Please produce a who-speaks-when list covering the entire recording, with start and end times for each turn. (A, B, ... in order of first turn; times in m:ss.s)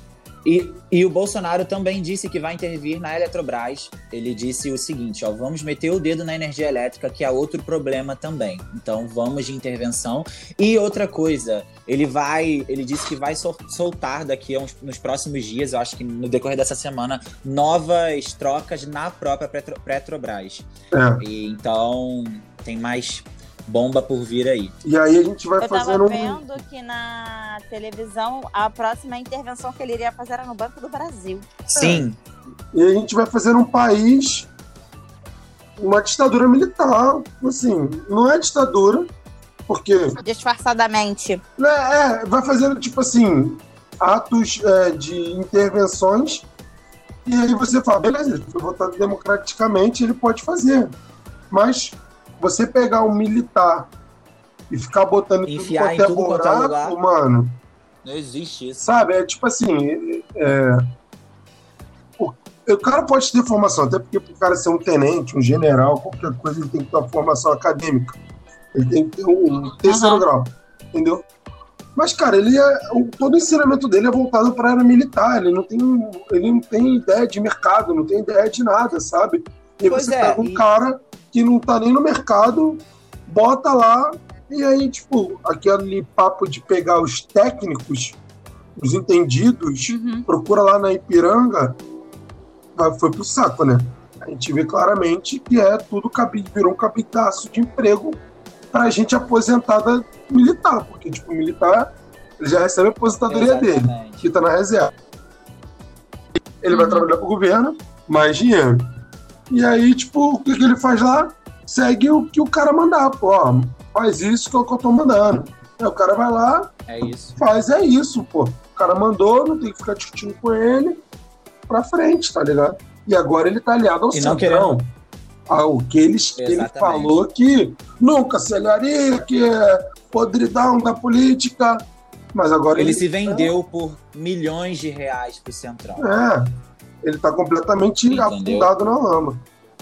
0:00.4-0:20.7 A
0:20.9-0:21.2 B
0:21.2-0:24.8 A
0:24.8-0:26.4 B
0:25.6-0:32.0 C
0:31.7-0:32.2 A
0:32.7-0:34.5 B
0:35.8-0:39.1 B
0:39.7-0:40.2 B
0:40.2-0:41.4 C
0:41.6-0:46.4 B
0:47.2-0:50.9 B
0:51.5-0:53.9 B
0:54.7-0:57.6 B
0:55.4-0:57.0 A
0:58.0-0:58.8 A
0:58.8-1:00.9 B
1:02.2-1:08.2 B
1:08.7-1:11.2 B
1:09.8-1:10.2 C
1:12.0-1:28.2 B
1:19.8-1:20.6 A
1:28.8-1:31.8 B
1:29.9-1:30.2 C
1:32.8-1:38.2 B
1:38.7-1:44.9 B
1:43.3-1:44.2 A
1:46.6-1:48.9 B
1:46.7-1:47.1 C
1:49.5-1:56.8 B
1:56.9-1:57.4 A
1:57.4-2:01.0 B
2:01.7-2:04.9 B
2:04.1-2:04.7 A
2:05.5-2:13.5 B
2:06.4-2:07.2 A
2:12.7-2:16.1 A
2:16.0-2:19.4 B
2:18.1-2:18.7 A